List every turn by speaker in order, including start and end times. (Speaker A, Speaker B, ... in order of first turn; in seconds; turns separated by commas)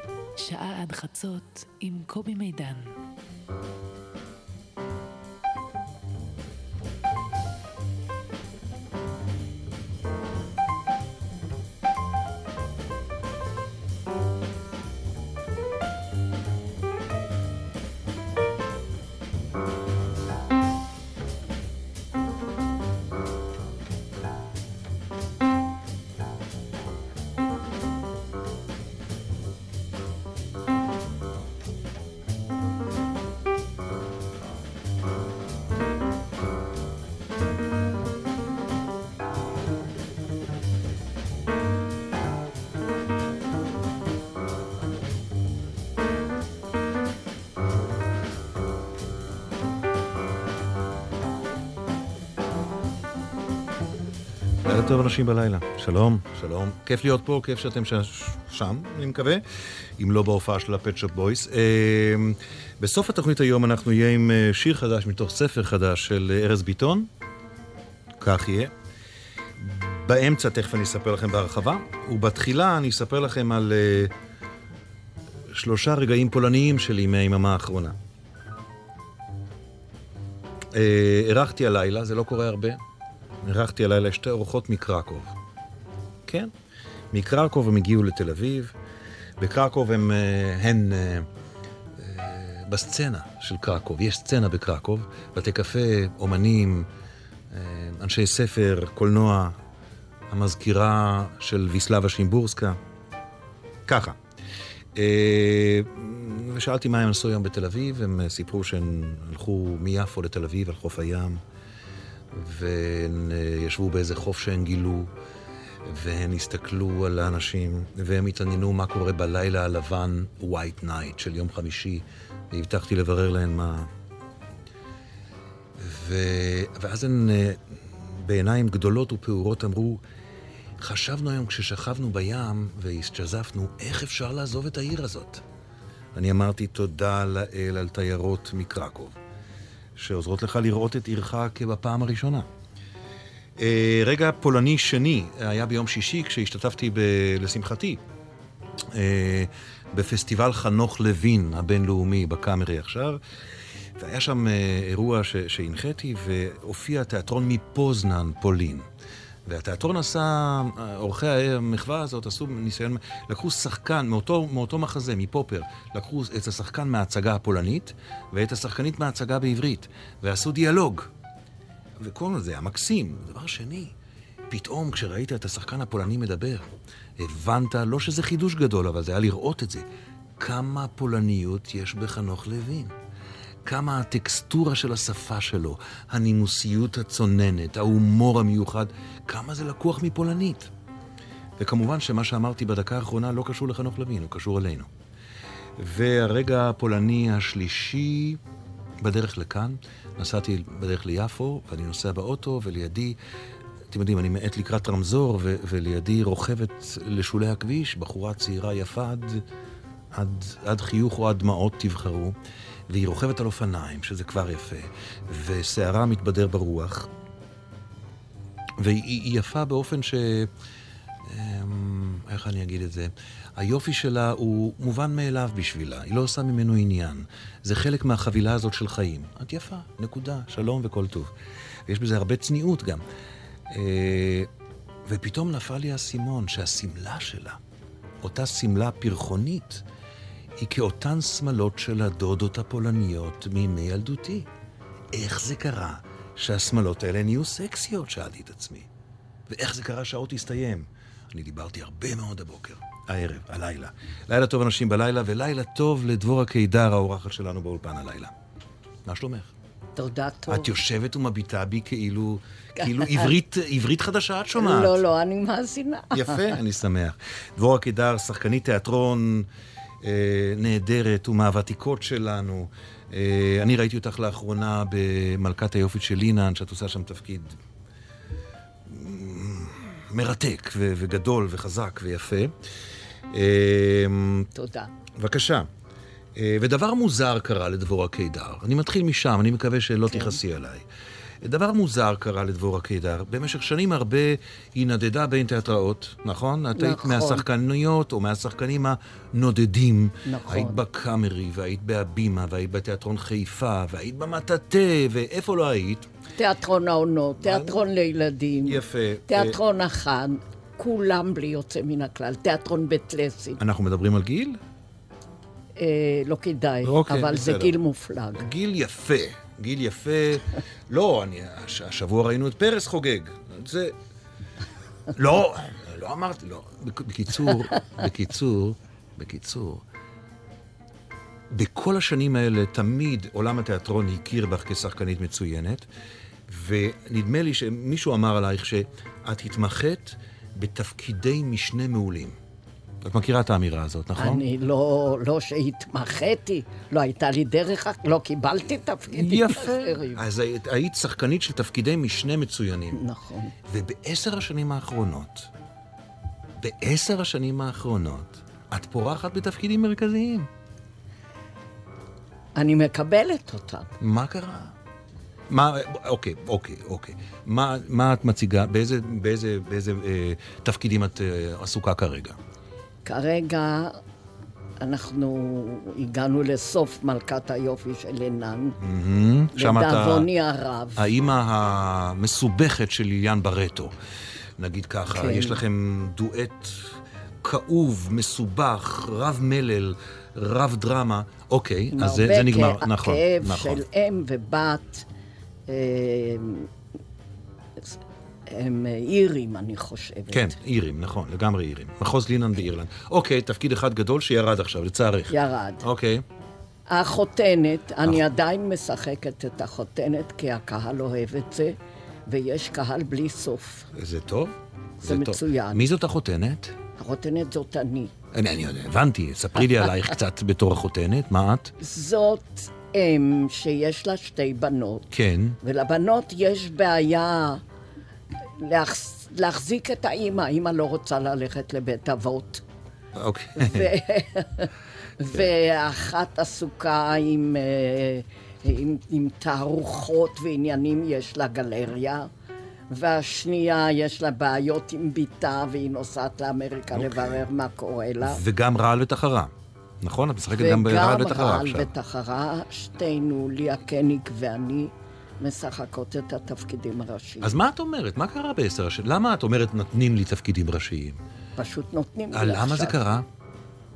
Speaker A: 0.4-3.0, Speaker B: 54.6-59.4, Speaker B: 60.0-67.1, Speaker B: 68.2-68.7, Speaker B: 69.6-74.1, Speaker B: 75.5-78.0, Speaker B: 80.7-82.8, Speaker B: 83.4-85.3, Speaker B: 86.2-86.5, Speaker B: 87.1-88.7, Speaker B: 89.4-91.3, Speaker B: 92.0-96.9, Speaker B: 97.5-99.5, Speaker B: 100.3-102.8, Speaker B: 103.9-104.2, Speaker B: 104.9-111.4, Speaker B: 112.3-115.1, Speaker B: 115.8-123.9, Speaker B: 125.8-130.0, Speaker B: 130.8-135.4, Speaker B: 136.1-139.2, Speaker B: 139.9-142.5, Speaker B: 143.6-148.0, Speaker B: 148.9-153.2, Speaker B: 154.0-158.8, Speaker B: 159.4-171.1, Speaker B: 172.0-173.9, Speaker B: 174.5-179.8, Speaker B: 180.4-182.9, Speaker B: 183.6-190.7, Speaker B: 191.6-194.9, Speaker B: 195.8-198.4, Speaker B: 199.0-203.2, Speaker B: 203.9-209.4, Speaker B: 210.1-212.3, Speaker B: 212.9-217.1, Speaker B: 218.8-220.5, Speaker B: 221.2-231.3, Speaker B: 231.9-233.0, Speaker B: 233.7-234.5, Speaker B: 235.1-237.6, Speaker B: 238.2-239.8, Speaker B: 240.6-244.5, Speaker B: 245.1-248.9, Speaker B: 249.5-258.3, Speaker B: 259.0-259.5, Speaker C: 259.9-260.7, Speaker B: 260.5-265.0, Speaker C: 262.8-263.3, Speaker C: 264.6-266.6, Speaker B: 266.1-269.5, Speaker B: 270.0-277.6, Speaker B: 278.9-282.5, Speaker B: 283.3-284.5, Speaker C: 284.5-284.9, Speaker B: 285.1-285.7, Speaker B: 286.3-290.9, Speaker C: 290.1-290.4, Speaker B: 291.4-306.1, Speaker C: 296.7-297.4, Speaker C: 300.2-300.8, Speaker C: 306.4-313.6, Speaker B: 307.4-307.8, Speaker B: 308.6-309.6, Speaker B: 313.6-314.6, Speaker C: 315.8-318.5, Speaker B: 316.8-317.8, Speaker B: 318.4-323.9, Speaker B: 325.1-329.8, Speaker B: 331.5-335.9, Speaker B: 336.5-342.3, Speaker B: 343.0-344.4, Speaker C: 344.1-350.2, Speaker B: 349.1-353.1, Speaker C: 352.9-353.5, Speaker B: 353.6-355.5, Speaker B: 356.6-360.5, Speaker C: 362.6-363.9, Speaker B: 364.0-364.7, Speaker B: 365.5-372.4, Speaker C: 373.0-374.0, Speaker C: 374.8-378.8, Speaker B: 378.8-380.3, Speaker C: 379.5-381.1, Speaker B: 381.0-383.9, Speaker B: 384.6-393.8, Speaker C: 385.1-385.6, Speaker C: 391.9-395.1, Speaker C: 395.7-396.7, Speaker C: 397.8-400.6, Speaker B: 400.3-406.2, Speaker C: 405.3-405.9, Speaker C: 406.9-411.8, Speaker C: 412.3-413.9, Speaker B: 413.9-416.7, Speaker C: 415.0-415.9, Speaker C: 417.0-418.1, Speaker B: 418.3-421.7, Speaker C: 421.8-425.1, Speaker B: 425.1-425.6, Speaker C: 425.6-427.6, Speaker C: 428.4-432.6, Speaker B: 433.1-433.9, Speaker C: 433.5-442.3, Speaker C: 442.9-448.4, Speaker B: 446.9-447.5, Speaker B: 448.2-451.9, Speaker C: 450.5-457.6, Speaker B: 457.4-461.2, Speaker C: 461.6-463.0, Speaker B: 462.3-463.2